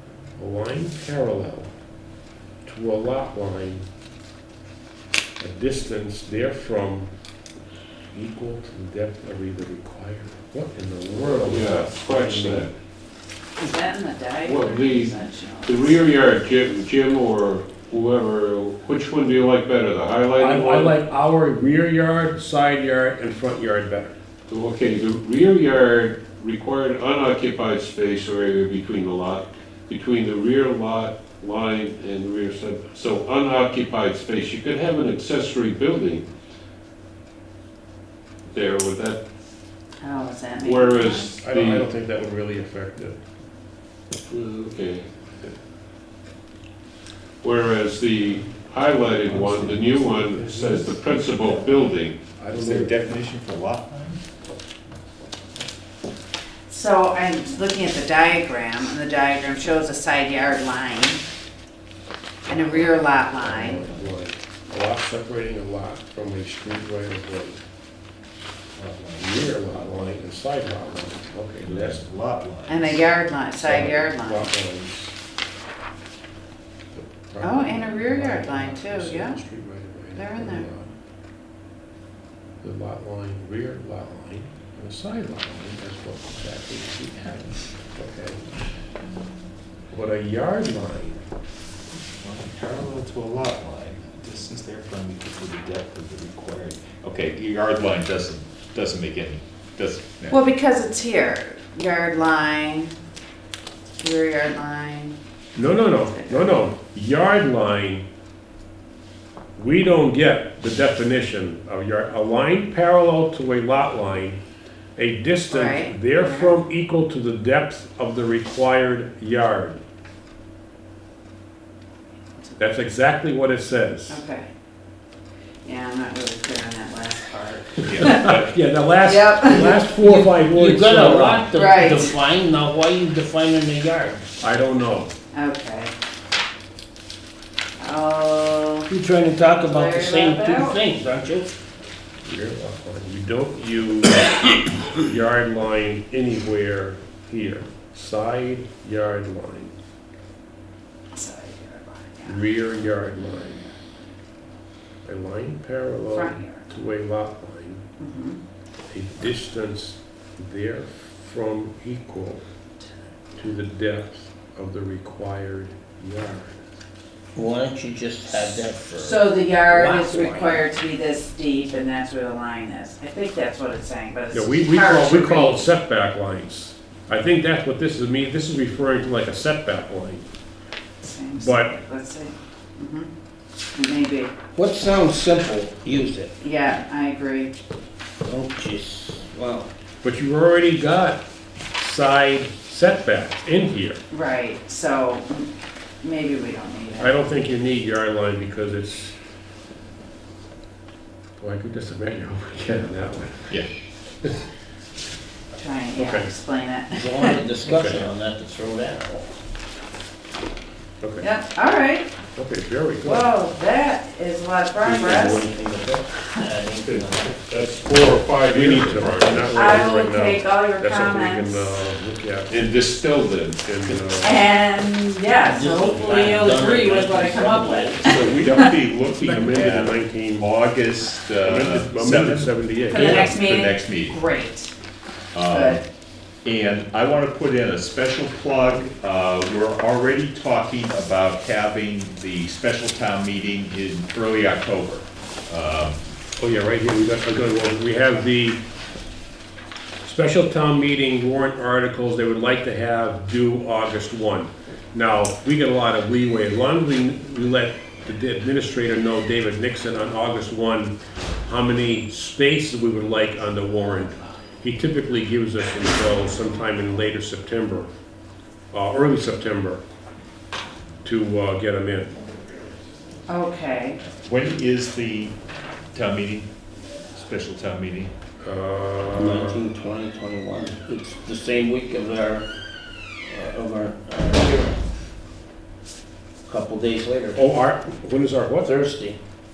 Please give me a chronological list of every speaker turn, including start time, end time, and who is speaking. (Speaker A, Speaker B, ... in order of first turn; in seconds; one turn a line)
Speaker A: 0.4-1.7
Speaker A: 2.6-3.9
Speaker A: 5.4-7.1
Speaker A: 8.1-12.7
Speaker B: 11.2-12.7
Speaker C: 13.6-15.9
Speaker B: 14.4-21.0
Speaker A: 20.4-24.1
Speaker B: 24.5-36.2
Speaker B: 38.5-39.2
Speaker C: 40.0-41.3
Speaker B: 40.6-41.9
Speaker A: 41.4-43.2
Speaker B: 44.2-45.1
Speaker B: 47.4-52.2
Speaker D: 49.2-50.2
Speaker A: 50.1-51.0
Speaker A: 52.4-53.1
Speaker D: 52.5-54.2
Speaker C: 56.7-61.2
Speaker A: 62.4-67.6
Speaker C: 62.5-63.8
Speaker D: 63.8-64.2
Speaker D: 68.8-70.2
Speaker A: 69.2-72.0
Speaker D: 71.6-73.0
Speaker C: 72.7-74.5
Speaker A: 73.6-75.1
Speaker A: 76.9-80.9
Speaker C: 77.4-79.4
Speaker C: 80.1-80.7
Speaker A: 82.6-88.5
Speaker A: 89.9-91.2
Speaker D: 92.2-100.4
Speaker C: 100.3-102.9
Speaker C: 104.0-105.2
Speaker A: 105.5-108.0
Speaker C: 106.0-106.5
Speaker A: 109.5-114.4
Speaker A: 115.0-119.8
Speaker C: 115.5-116.6
Speaker C: 122.3-122.7
Speaker A: 122.6-124.2
Speaker C: 124.1-124.5
Speaker C: 125.6-128.4
Speaker D: 127.9-128.4
Speaker A: 128.0-131.5
Speaker C: 129.0-129.9
Speaker E: 130.0-134.2
Speaker C: 131.5-132.1
Speaker A: 134.4-135.1
Speaker C: 135.3-135.9
Speaker C: 137.8-138.9
Speaker E: 138.9-141.5
Speaker C: 139.6-140.8
Speaker A: 142.2-149.8
Speaker C: 151.1-152.6
Speaker A: 152.2-153.6
Speaker C: 153.3-153.7
Speaker A: 155.0-157.8
Speaker C: 156.1-156.6
Speaker C: 158.0-158.4
Speaker A: 158.9-162.4
Speaker A: 163.4-166.6
Speaker E: 167.3-170.6
Speaker C: 168.3-175.7
Speaker A: 174.3-180.3
Speaker C: 181.0-183.1
Speaker A: 181.3-181.7
Speaker C: 183.7-184.3
Speaker E: 184.5-186.3
Speaker C: 186.4-187.5
Speaker E: 188.3-189.7
Speaker A: 190.0-191.2
Speaker A: 191.8-194.0
Speaker C: 194.1-195.5
Speaker C: 196.0-197.2
Speaker A: 197.0-199.2
Speaker A: 201.4-203.6
Speaker C: 205.5-207.4
Speaker A: 205.9-206.3
Speaker E: 206.9-209.3
Speaker A: 207.6-208.1
Speaker A: 211.0-211.3
Speaker C: 211.2-212.1
Speaker A: 212.3-213.3
Speaker C: 213.0-215.5
Speaker E: 214.8-217.3
Speaker B: 216.8-219.7
Speaker A: 218.4-222.6
Speaker C: 219.5-221.8
Speaker B: 222.5-223.6
Speaker A: 223.6-224.4
Speaker C: 224.2-228.7
Speaker E: 225.5-228.0
Speaker D: 228.0-234.2
Speaker A: 229.2-230.5
Speaker A: 231.4-233.3
Speaker C: 232.9-234.7
Speaker D: 235.3-235.8
Speaker C: 235.5-235.8
Speaker D: 236.4-246.0
Speaker A: 246.4-248.6
Speaker A: 250.0-267.9
Speaker A: 268.7-269.8
Speaker A: 271.0-272.1
Speaker C: 273.3-274.0
Speaker D: 274.2-275.4
Speaker D: 275.9-276.5
Speaker D: 277.1-278.1
Speaker A: 278.4-279.6
Speaker E: 279.2-282.4
Speaker E: 283.2-284.9
Speaker E: 286.5-287.4
Speaker A: 287.3-288.8
Speaker E: 288.6-289.2